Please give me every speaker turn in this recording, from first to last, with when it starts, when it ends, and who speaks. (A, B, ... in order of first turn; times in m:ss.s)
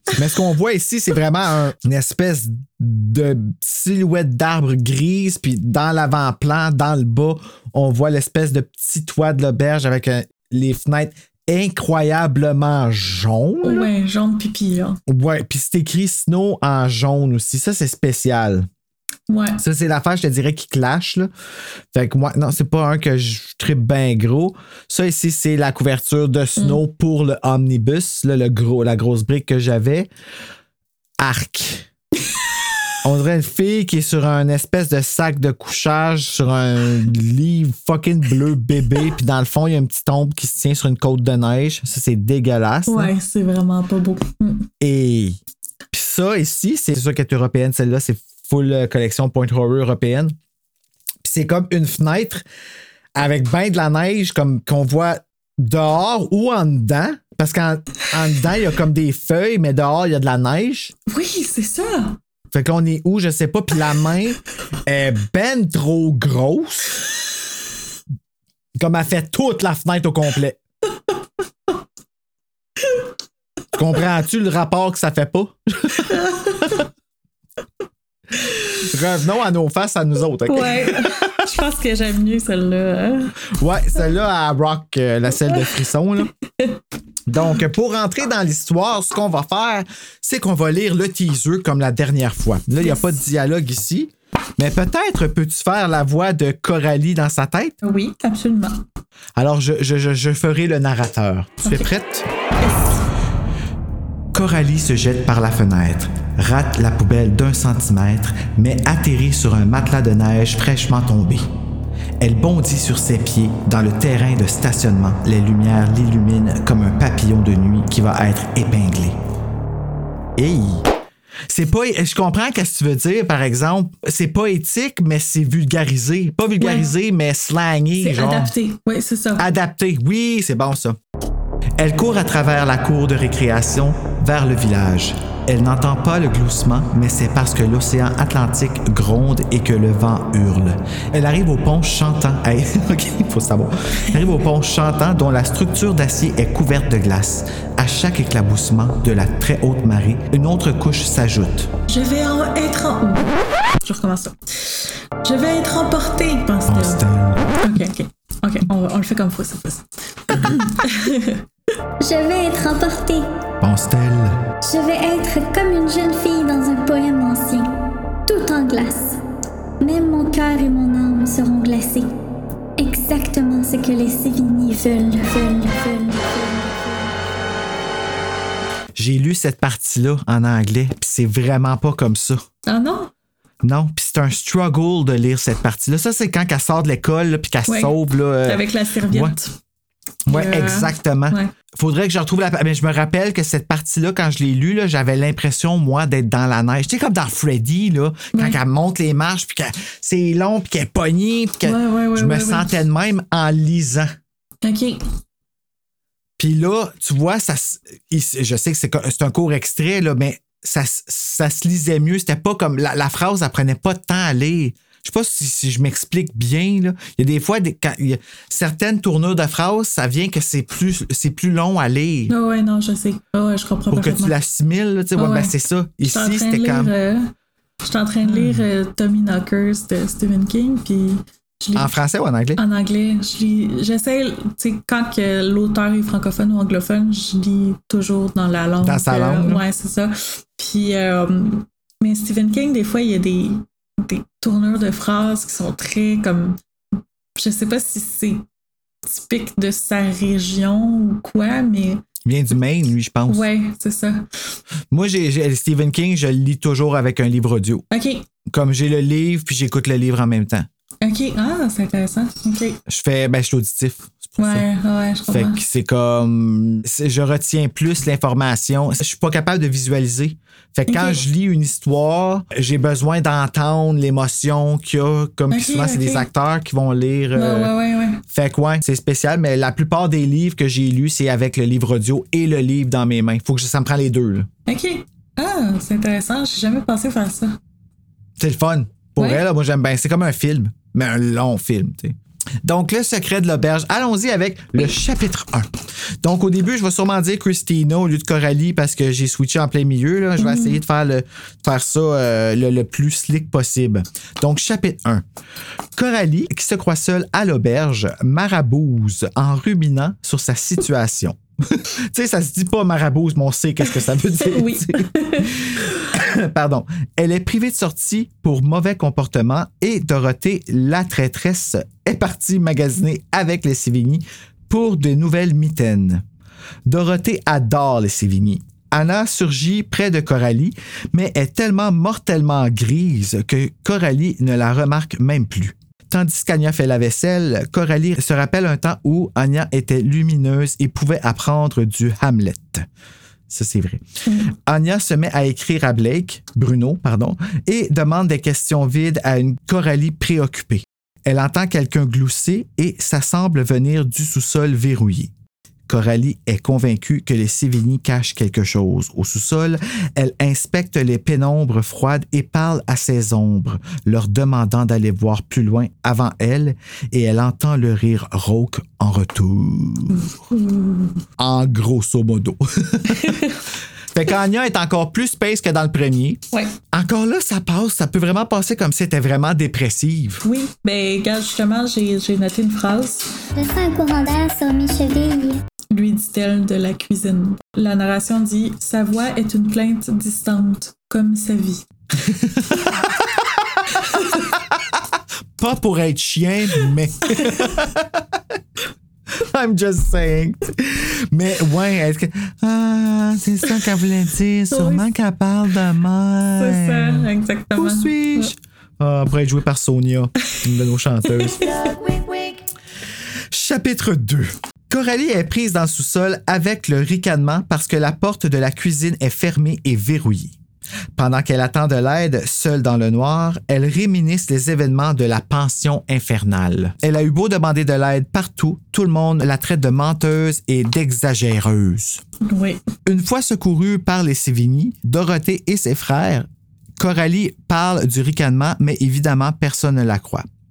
0:00.2-0:13.9 A
0:13.6-0:15.0 B
0:15.1-0:18.7 A
0:19.3-0:19.6 B
0:19.6-0:21.3 A
0:21.9-0:30.1 A
0:31.2-0:31.9 A
0:33.0-0:43.1 A
0:42.9-0:44.7 B
0:44.8-0:45.4 A
0:45.9-0:50.4 A
0:51.2-0:52.4 A
0:53.2-1:00.9 A
1:01.1-1:02.2 B
1:02.5-1:07.0 A
1:08.8-1:10.6 A
1:13.7-1:16.2 A
1:16.1-1:16.8 B
1:18.8-1:21.3 A
1:20.5-1:23.3 B
1:23.6-1:26.3 A
1:27.3-1:37.8 A
1:32.8-1:33.1 B
1:37.8-1:38.8 B
1:39.4-1:42.3 A
1:42.6-1:43.0 B
1:44.3-1:51.5 A
1:52.2-1:59.2 A
2:00.4-2:00.9 A
2:01.5-2:08.5 A
2:06.6-2:06.9 B
2:08.0-2:09.5 B
2:09.4-2:11.0 A
2:11.8-2:31.7 A
2:31.9-2:37.0 B
2:36.7-2:37.5 A
2:37.6-2:41.4 B
2:42.0-2:43.3 C
2:43.6-2:44.4 A
2:44.7-2:47.7 C
2:48.3-2:49.2 C
2:49.8-2:52.1 C
2:52.8-2:57.1 C
2:59.0-3:02.4 A
3:02.7-3:03.1 B
3:03.6-3:09.4 A
3:07.7-3:09.6 B
3:10.3-3:24.1 A
3:10.3-3:11.5 B
3:18.3-3:18.6 B
3:21.6-3:22.8 B
3:24.6-3:25.0 B
3:26.4-3:42.3 A
3:42.3-3:44.3 B
3:43.9-3:46.9 A
3:45.2-3:45.5 B
3:46.0-3:47.3 B
3:47.8-3:51.9 B
3:48.3-3:48.6 A
3:51.8-3:52.6 A
3:52.6-4:06.6 B
3:58.8-3:59.6 A
4:07.4-4:08.4 B
4:09.1-4:12.0 B
4:12.2-4:13.5 A
4:13.3-4:14.2 B
4:14.9-4:17.8 A
4:17.9-4:18.3 B
4:18.5-4:20.7 A
4:21.0-4:22.8 B
4:22.9-4:24.7 A
4:24.4-4:25.6 B
4:25.3-4:37.7 A
4:30.9-4:31.2 B
4:35.5-4:36.3 B
4:37.4-4:38.2 B
4:38.3-4:44.5 A
4:44.7-4:47.6 B
4:48.4-5:05.2 A
5:00.4-5:00.8 B
5:06.0-5:26.2 A
5:14.4-5:15.5 B
5:26.9-5:42.9 A
5:43.5-5:55.3 A
5:44.3-5:44.5 B
5:55.9-6:10.3 A
6:10.5-6:11.2 B
6:11.4-6:13.4 A
6:13.1-6:13.6 B
6:14.1-6:20.4 A
6:20.4-6:23.3 B
6:23.6-6:25.6 C
6:25.9-6:31.9 B
6:32.3-6:33.4 A
6:34.1-6:34.4 B
6:35.6-6:38.4 A
6:37.4-6:37.7 B
6:39.4-6:51.7 A
6:44.7-6:45.1 B
6:46.6-6:48.5 B
6:53.5-7:00.6 A
7:01.2-7:12.2 A
7:12.4-7:12.8 B
7:13.0-7:20.5 A